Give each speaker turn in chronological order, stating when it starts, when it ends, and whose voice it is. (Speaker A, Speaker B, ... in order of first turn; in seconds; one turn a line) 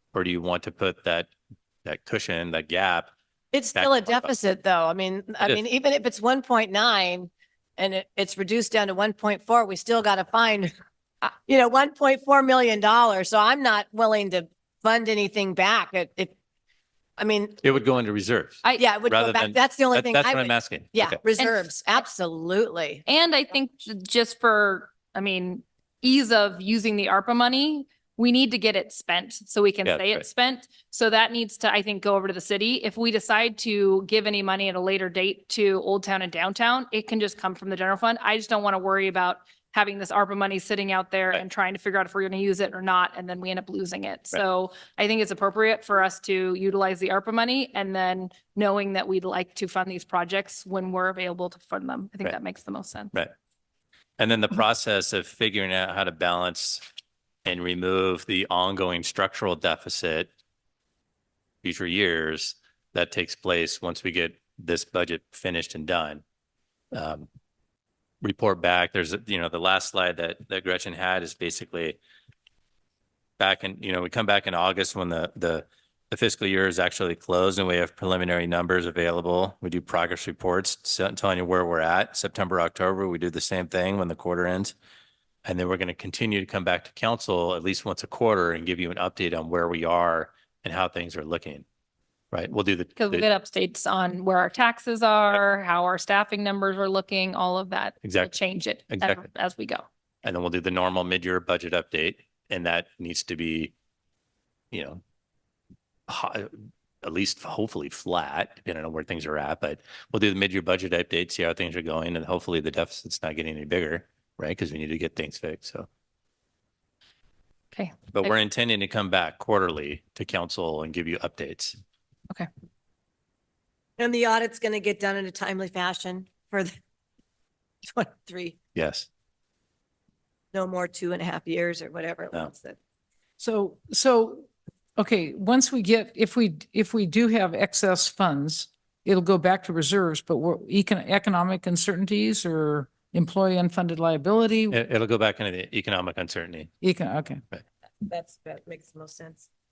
Speaker A: 0.1-1.3
Speaker A: 1.9-3.1
Speaker B: 3.5-10.7
Speaker A: 3.8-4.3
Speaker B: 11.5-16.4
Speaker B: 17.2-17.6
Speaker A: 17.6-21.2
Speaker B: 18.8-23.0
Speaker C: 21.4-22.0
Speaker C: 23.1-53.1
Speaker A: 29.9-30.2
Speaker A: 54.2-56.8
Speaker A: 57.5-60.3
Speaker A: 61.6-66.2
Speaker A: 66.9-67.3
Speaker A: 68.2-72.0
Speaker A: 73.4-84.8
Speaker A: 85.5-91.7
Speaker A: 92.3-93.3
Speaker C: 93.0-99.9
Speaker A: 98.0-98.4
Speaker A: 98.9-99.2
Speaker A: 100.2-103.7
Speaker A: 104.7-105.0
Speaker A: 106.1-115.9
Speaker C: 117.7-118.3
Speaker A: 118.1-121.8
Speaker B: 124.0-126.7
Speaker B: 127.8-128.6
Speaker A: 128.8-129.1
Speaker B: 130.5-132.8
Speaker D: 133.4-144.8
Speaker A: 144.7-146.7
Speaker D: 146.8-147.4
Speaker B: 148.0-149.5